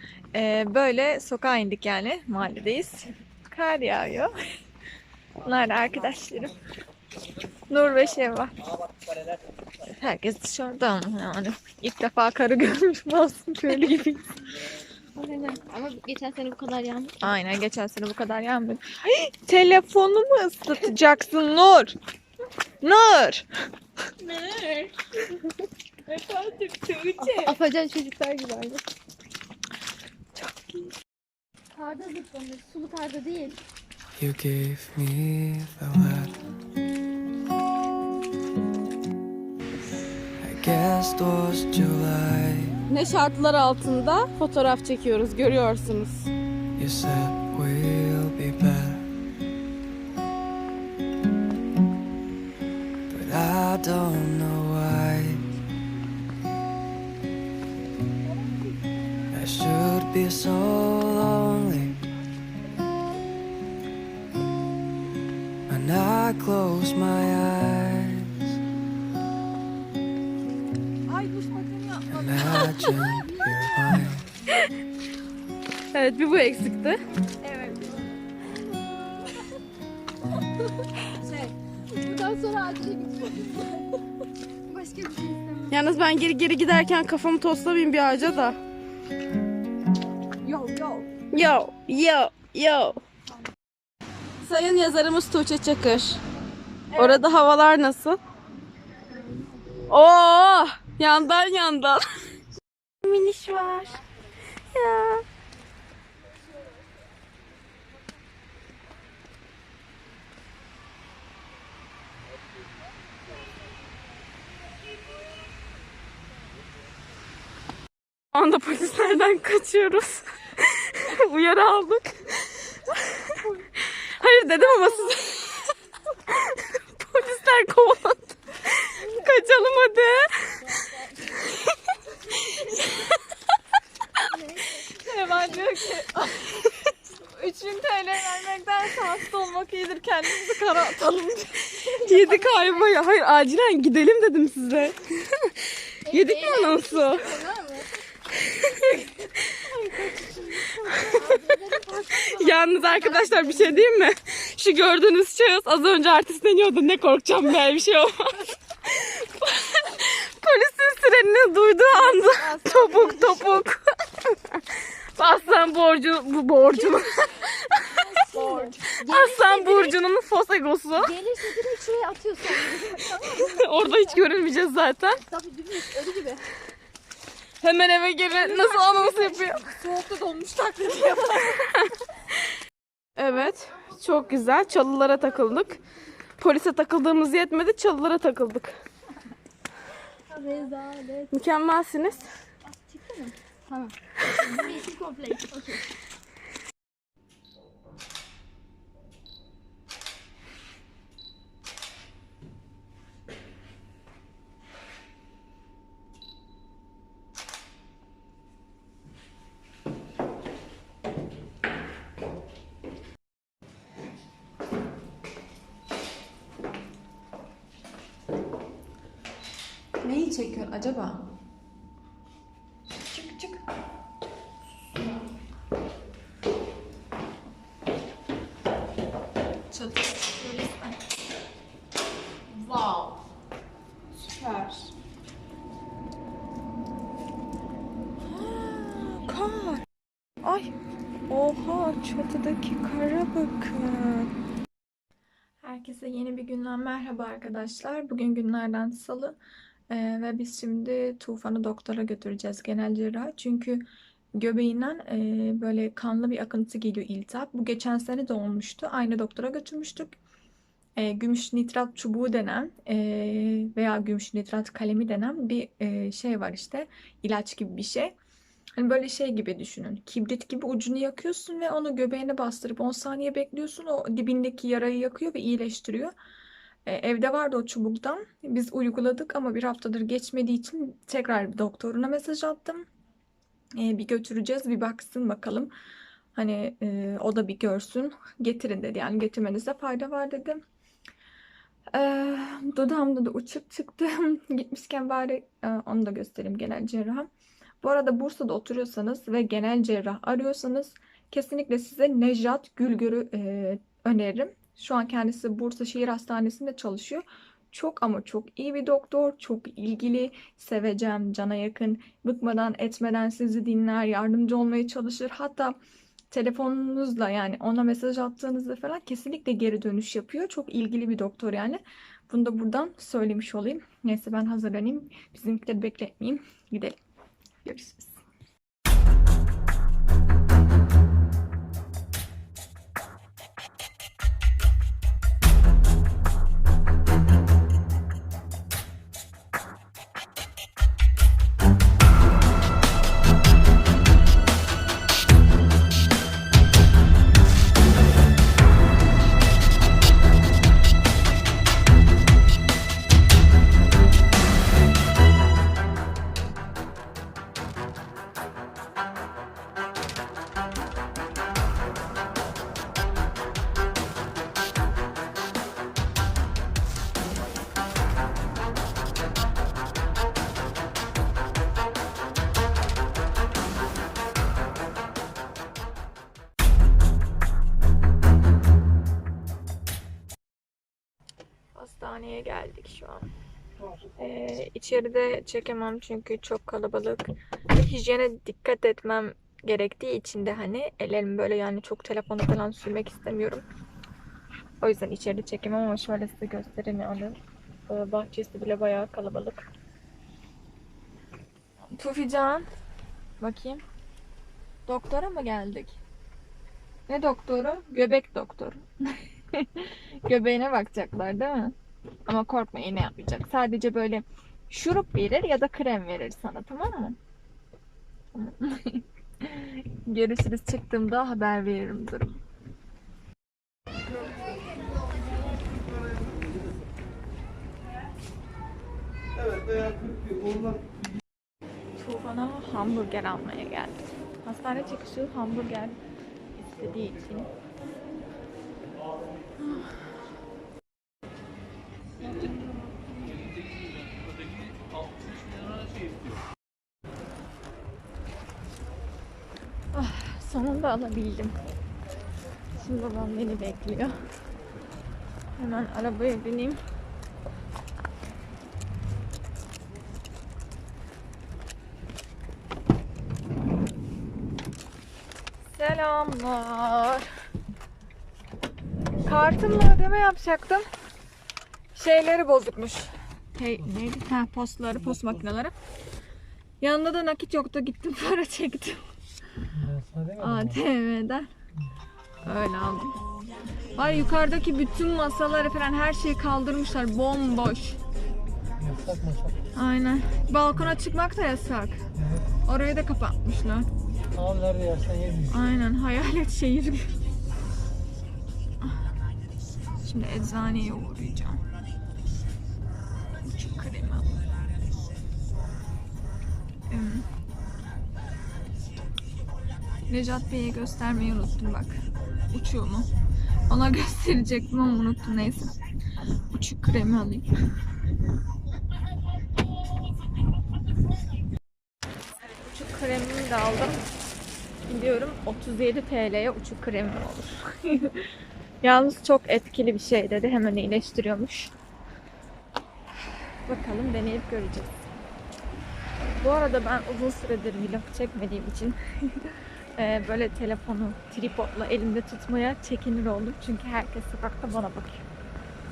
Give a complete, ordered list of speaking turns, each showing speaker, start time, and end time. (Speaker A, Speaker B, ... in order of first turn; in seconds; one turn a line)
Speaker A: 0.3-4.3
Speaker A: 5.4-6.6
Speaker A: 7.7-8.6
Speaker A: 9.8-14.3
Speaker A: 15.2-15.6
Speaker B: 15.6-17.2
Speaker A: 17.2-21.9
Speaker A: 22.8-23.6
Speaker B: 24.2-24.9
Speaker A: 26.1-27.6
Speaker B: 27.2-28.8
Speaker C: 27.3-28.4
Speaker A: 30.4-30.9
Speaker B: 31.7-33.6
Speaker D: 34.2-36.4
Speaker D: 40.4-42.8
Speaker C: 42.9-46.3
Speaker D: 46.8-49.0
Speaker D: 53.1-55.5
Speaker D: 59.3-62.0
Speaker D: 65.7-68.4
Speaker A: 71.1-72.4
Speaker D: 72.1-74.3
Speaker B: 72.5-73.9
Speaker C: 75.9-77.0
Speaker A: 77.4-78.0
Speaker B: 78.7-79.3
Speaker B: 81.2-83.8
Speaker B: 84.7-85.9
Speaker C: 85.7-88.6
Speaker B: 90.4-91.0
Speaker A: 90.5-91.0
Speaker C: 91.3-93.0
Speaker C: 94.4-96.2
Speaker C: 97.0-98.2
Speaker C: 99.9-102.0
Speaker A: 103.0-104.0
Speaker C: 104.7-105.2
Speaker C: 118.3-123.3
Speaker C: 123.9-125.7
Speaker B: 124.8-125.1
Speaker C: 126.4-130.6
Speaker B: 128.9-129.9
Speaker B: 130.6-131.3
Speaker B: 132.5-132.8
Speaker B: 134.2-135.7
Speaker A: 135.0-136.6
Speaker A: 137.3-141.7
Speaker B: 141.8-142.9
Speaker C: 142.0-145.5
Speaker B: 146.0-147.9
Speaker C: 146.1-147.3
Speaker B: 149.7-153.9
Speaker C: 151.0-151.4
Speaker C: 152.3-164.6
Speaker B: 161.9-163.6
Speaker C: 165.2-171.1
Speaker B: 165.3-165.6
Speaker B: 166.7-170.0
Speaker B: 170.9-174.3
Speaker C: 173.4-175.2
Speaker B: 175.1-176.4
Speaker C: 177.6-179.6
Speaker B: 178.5-179.5
Speaker A: 179.6-181.7
Speaker C: 183.2-185.8
Speaker C: 186.4-188.8
Speaker B: 190.3-191.4
Speaker C: 191.3-192.2
Speaker B: 192.6-195.9
Speaker A: 220.0-221.3
Speaker A: 223.0-223.6
Speaker A: 229.7-231.0
Speaker A: 232.5-233.2
Speaker A: 234.1-234.9
Speaker A: 238.3-239.8
Speaker A: 240.4-240.7
Speaker A: 241.3-244.3
Speaker A: 245.6-249.4
Speaker A: 249.9-260.1
Speaker A: 261.0-268.1
Speaker A: 268.8-276.1
Speaker A: 276.9-282.8
Speaker A: 283.8-285.7
Speaker A: 286.3-290.6
Speaker A: 291.9-297.3
Speaker A: 297.8-315.8
Speaker A: 316.3-327.0
Speaker A: 327.6-328.1
Speaker A: 381.7-383.2
Speaker E: 383.8-384.0
Speaker A: 384.2-393.6
Speaker A: 394.8-397.4
Speaker A: 397.9-399.7
Speaker A: 401.9-402.6
Speaker A: 403.4-403.8
Speaker A: 404.9-406.0
Speaker A: 407.1-411.7
Speaker A: 412.3-417.2
Speaker A: 418.3-422.4
Speaker A: 432.0-436.0
Speaker A: 436.6-437.5
Speaker B: 442.2-443.4
Speaker A: 449.9-451.5
Speaker A: 452.7-454.2
Speaker A: 455.6-456.8
Speaker A: 465.7-467.2
Speaker A: 469.2-470.9
Speaker A: 471.9-475.7
Speaker E: 475.0-475.3
Speaker A: 476.8-479.0
Speaker E: 479.7-480.8
Speaker A: 480.4-481.5
Speaker A: 482.4-483.2
Speaker A: 483.9-488.0
Speaker E: 488.8-489.6
Speaker A: 489.7-492.0
Speaker E: 492.1-492.5
Speaker A: 492.6-493.9
Speaker E: 494.4-495.6
Speaker A: 495.5-497.2
Speaker A: 500.0-501.6
Speaker A: 503.4-504.4
Speaker A: 506.9-507.3
Speaker A: 510.1-513.1
Speaker A: 513.7-515.8
Speaker A: 516.5-517.5
Speaker A: 522.6-524.0
Speaker A: 524.9-528.3
Speaker A: 528.8-531.7
Speaker A: 533.6-535.0
Speaker A: 536.4-545.2